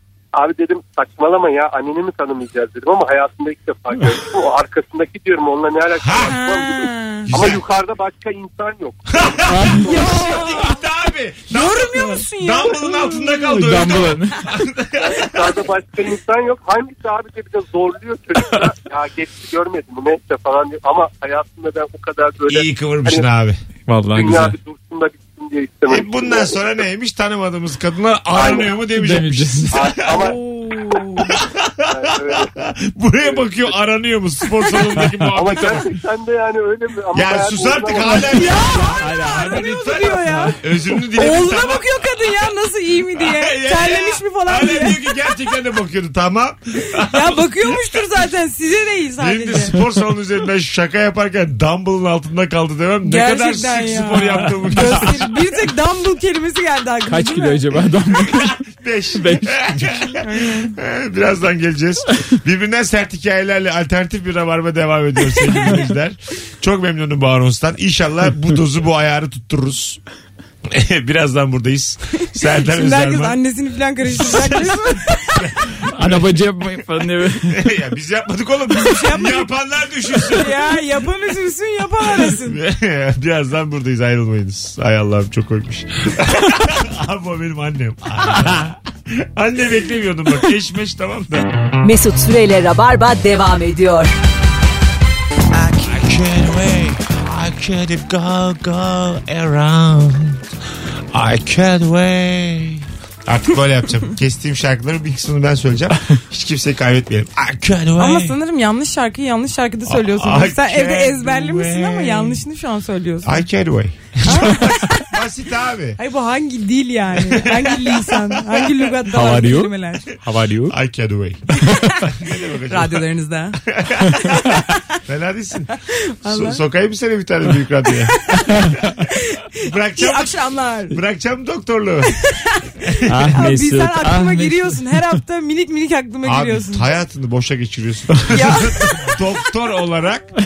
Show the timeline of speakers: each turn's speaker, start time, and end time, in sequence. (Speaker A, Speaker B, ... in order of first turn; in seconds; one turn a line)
Speaker A: 0.3-10.2
Speaker B: 6.0-6.4
Speaker C: 6.2-7.3
Speaker B: 7.3-7.6
Speaker B: 9.2-15.6
Speaker D: 9.5-9.9
Speaker C: 9.8-10.8
Speaker C: 11.5-13.5
Speaker D: 13.4-14.4
Speaker A: 15.0-23.3
Speaker B: 22.5-23.6
Speaker D: 23.9-24.6
Speaker A: 24.1-26.6
Speaker B: 25.9-30.1
Speaker A: 28.3-28.7
Speaker D: 28.9-29.9
Speaker A: 29.7-30.3
Speaker C: 30.1-31.3
Speaker B: 31.1-35.8
Speaker A: 31.9-32.5
Speaker D: 34.9-35.9
Speaker A: 35.3-38.3
Speaker B: 37.1-42.5
Speaker C: 38.0-40.6
Speaker D: 39.0-39.6
Speaker D: 40.1-40.5
Speaker C: 41.1-45.0
Speaker B: 43.1-48.0
Speaker C: 47.0-49.8
Speaker B: 49.2-55.5
Speaker C: 53.0-57.6
Speaker D: 54.6-55.0
Speaker D: 57.1-58.5
Speaker B: 58.2-70.0
Speaker D: 59.1-60.1
Speaker C: 60.2-60.7
Speaker B: 70.7-73.4
Speaker C: 72.4-75.4
Speaker B: 74.1-76.3
Speaker D: 75.9-77.7
Speaker B: 77.5-80.6
Speaker C: 78.7-79.5
Speaker C: 80.1-82.6
Speaker B: 82.2-91.5
Speaker E: 91.8-94.1
Speaker B: 95.5-100.4
Speaker B: 101.1-108.3
Speaker C: 108.0-113.3
Speaker B: 109.9-112.4
Speaker B: 113.2-116.0
Speaker C: 114.2-115.1
Speaker C: 116.0-120.0
Speaker B: 117.2-118.7
Speaker D: 119.1-120.8
Speaker B: 120.7-121.4
Speaker C: 121.5-122.1
Speaker B: 122.0-123.0
Speaker C: 122.7-123.6
Speaker B: 123.7-128.2
Speaker C: 124.4-124.8
Speaker C: 126.2-126.6
Speaker D: 128.4-128.8
Speaker C: 129.1-131.0
Speaker B: 129.6-130.3
Speaker B: 130.9-132.1
Speaker C: 132.1-132.7
Speaker B: 132.8-133.4
Speaker D: 133.1-135.1
Speaker C: 133.3-136.8
Speaker B: 136.2-140.3
Speaker C: 138.3-138.8